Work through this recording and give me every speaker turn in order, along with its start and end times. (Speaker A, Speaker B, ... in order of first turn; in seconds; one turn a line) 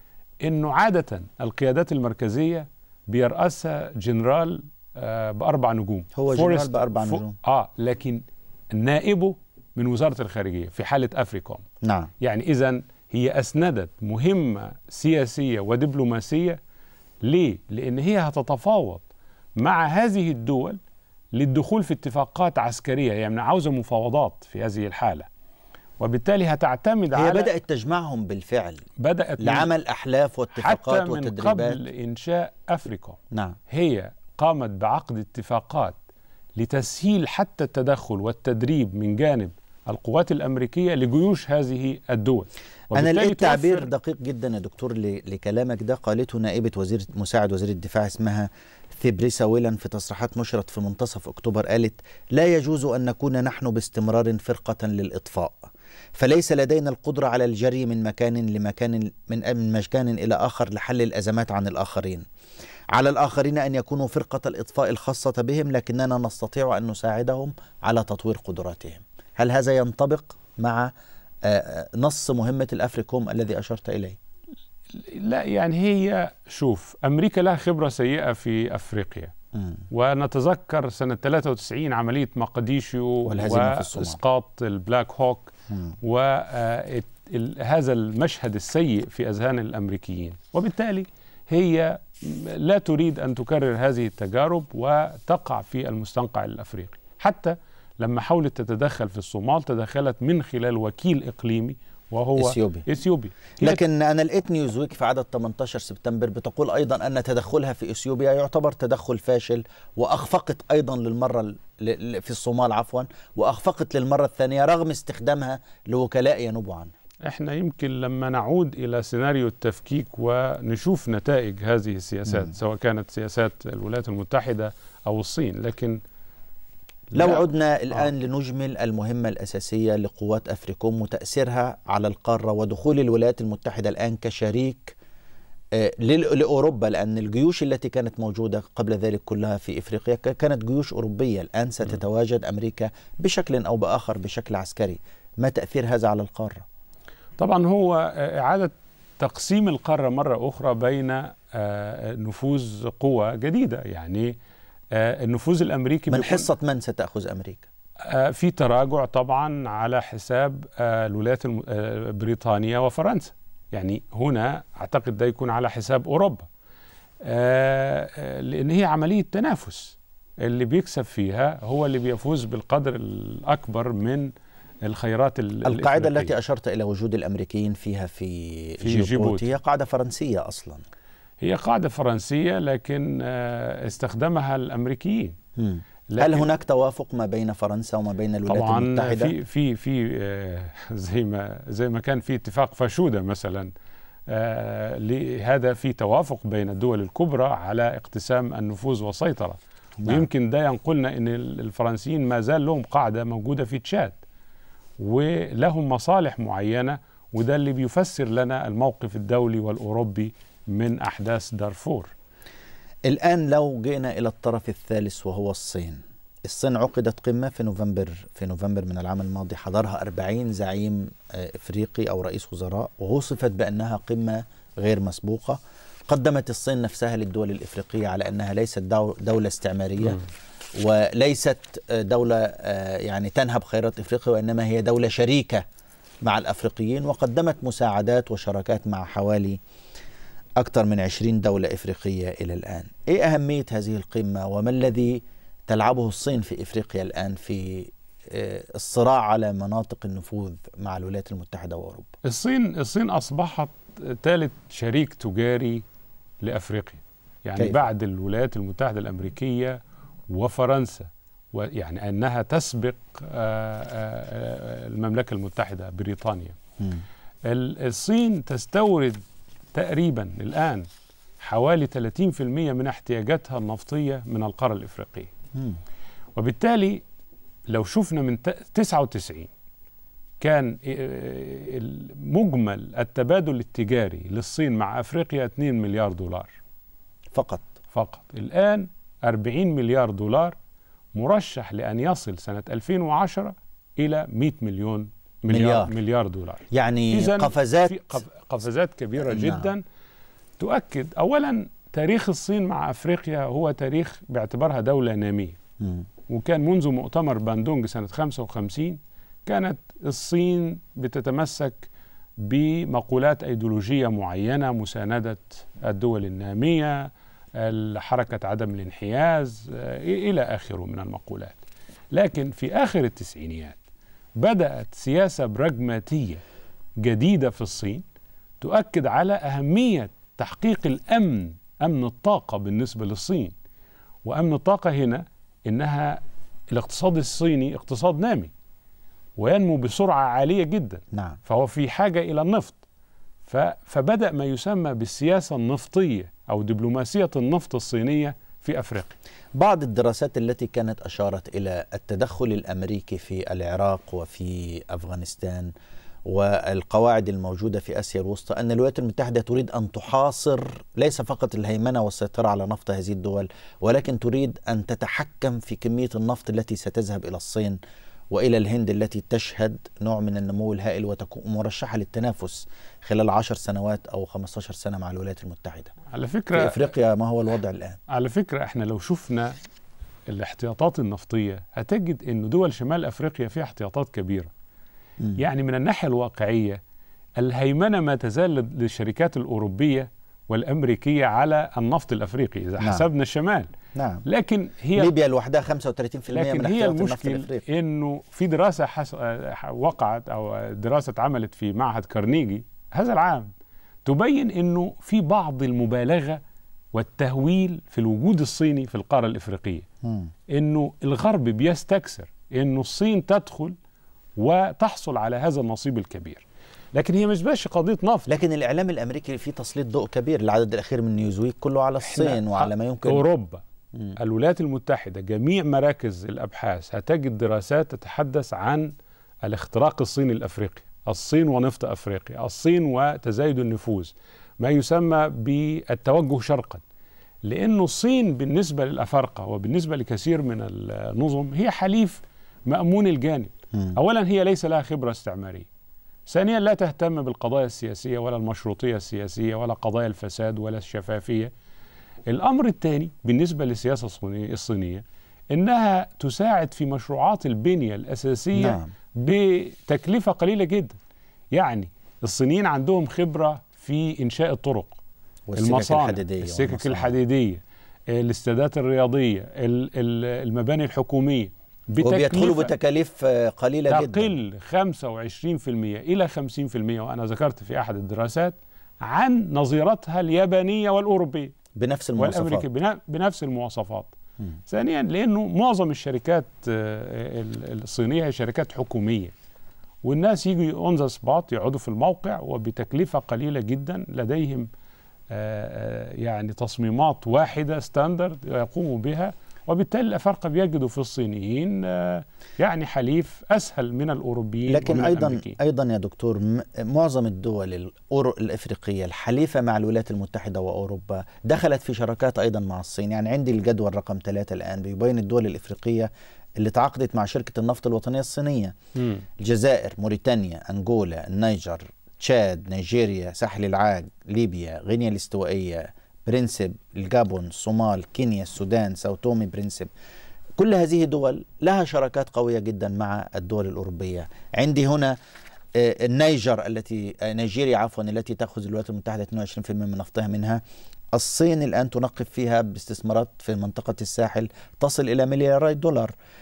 Speaker A: 0.4-11.6
Speaker B: 6.2-7.4
Speaker B: 11.8-12.1
Speaker A: 12.2-16.6
Speaker A: 17.2-19.1
Speaker A: 19.6-20.8
Speaker A: 21.3-25.3
Speaker A: 26.0-27.5
Speaker B: 27.1-28.9
Speaker A: 29.0-29.7
Speaker B: 29.4-31.8
Speaker A: 30.5-33.2
Speaker B: 33.3-33.6
Speaker A: 33.7-36.0
Speaker A: 36.6-43.9
Speaker B: 42.9-62.2
Speaker B: 62.9-70.9
Speaker B: 71.4-74.2
Speaker A: 74.9-79.3
Speaker B: 79.5-79.8
Speaker A: 79.9-103.8
Speaker B: 83.3-84.2
Speaker B: 85.7-86.0
Speaker B: 102.4-102.9
Speaker B: 103.6-116.9
Speaker A: 117.2-126.0
Speaker A: 127.1-128.1
Speaker B: 127.2-135.0
Speaker B: 135.8-146.7
Speaker A: 147.4-154.3
Speaker A: 154.9-156.5
Speaker B: 156.1-157.7
Speaker A: 158.1-166.5
Speaker A: 167.2-174.3
Speaker A: 174.8-176.3
Speaker B: 175.7-180.8
Speaker A: 178.8-179.5
Speaker A: 181.4-185.4
Speaker B: 185.6-189.3
Speaker A: 186.1-186.5
Speaker A: 188.5-193.7
Speaker A: 194.3-204.2
Speaker B: 200.0-200.3
Speaker A: 205.0-212.1
Speaker B: 213.1-230.2
Speaker B: 230.8-235.6
Speaker B: 236.2-239.6
Speaker B: 240.6-252.1
Speaker A: 252.2-255.8
Speaker A: 256.4-259.8
Speaker B: 257.6-257.8
Speaker A: 260.3-266.6
Speaker B: 266.8-267.0
Speaker A: 267.4-269.2
Speaker A: 269.7-270.9
Speaker A: 271.4-275.3
Speaker B: 275.6-275.8
Speaker A: 276.4-277.0
Speaker A: 277.7-279.5
Speaker A: 280.4-286.6
Speaker B: 287.3-287.7
Speaker A: 287.9-290.6
Speaker A: 291.1-299.8
Speaker B: 295.5-295.9
Speaker B: 296.7-298.2
Speaker B: 299.2-299.7
Speaker A: 300.6-305.6
Speaker B: 305.8-306.1
Speaker A: 306.3-311.9
Speaker A: 312.4-321.6
Speaker A: 322.1-323.8
Speaker A: 324.4-326.4
Speaker A: 327.0-328.0
Speaker A: 328.6-333.5
Speaker A: 334.2-338.5
Speaker A: 339.4-342.8
Speaker B: 341.1-341.4
Speaker A: 343.4-349.2
Speaker B: 349.5-355.7
Speaker B: 356.3-367.8
Speaker B: 368.3-375.9
Speaker A: 376.1-376.8
Speaker B: 376.5-378.0
Speaker A: 378.1-379.6
Speaker A: 380.3-384.5
Speaker A: 385.4-386.8
Speaker A: 387.4-393.7
Speaker B: 392.8-393.1
Speaker B: 393.9-394.2
Speaker A: 394.3-395.1
Speaker B: 394.9-397.6
Speaker A: 396.3-403.5
Speaker A: 404.1-406.4
Speaker A: 406.9-409.9
Speaker B: 410.0-410.3
Speaker A: 410.5-413.8
Speaker A: 414.4-418.3
Speaker B: 418.3-423.3
Speaker A: 422.0-423.6
Speaker A: 424.2-428.9
Speaker A: 429.4-436.8
Speaker A: 437.4-445.7
Speaker A: 446.3-451.5
Speaker A: 452.3-461.0
Speaker B: 458.6-458.9
Speaker A: 461.5-465.0
Speaker B: 465.5-467.1
Speaker A: 465.6-472.7
Speaker B: 472.0-474.4
Speaker A: 473.9-481.6
Speaker B: 481.8-482.7
Speaker A: 482.2-484.1
Speaker A: 484.7-489.3
Speaker A: 490.0-494.7
Speaker A: 495.3-505.6
Speaker B: 504.7-518.8
Speaker A: 519.0-519.2
Speaker B: 519.4-529.9
Speaker B: 530.6-535.2
Speaker B: 535.8-540.6
Speaker B: 541.1-546.1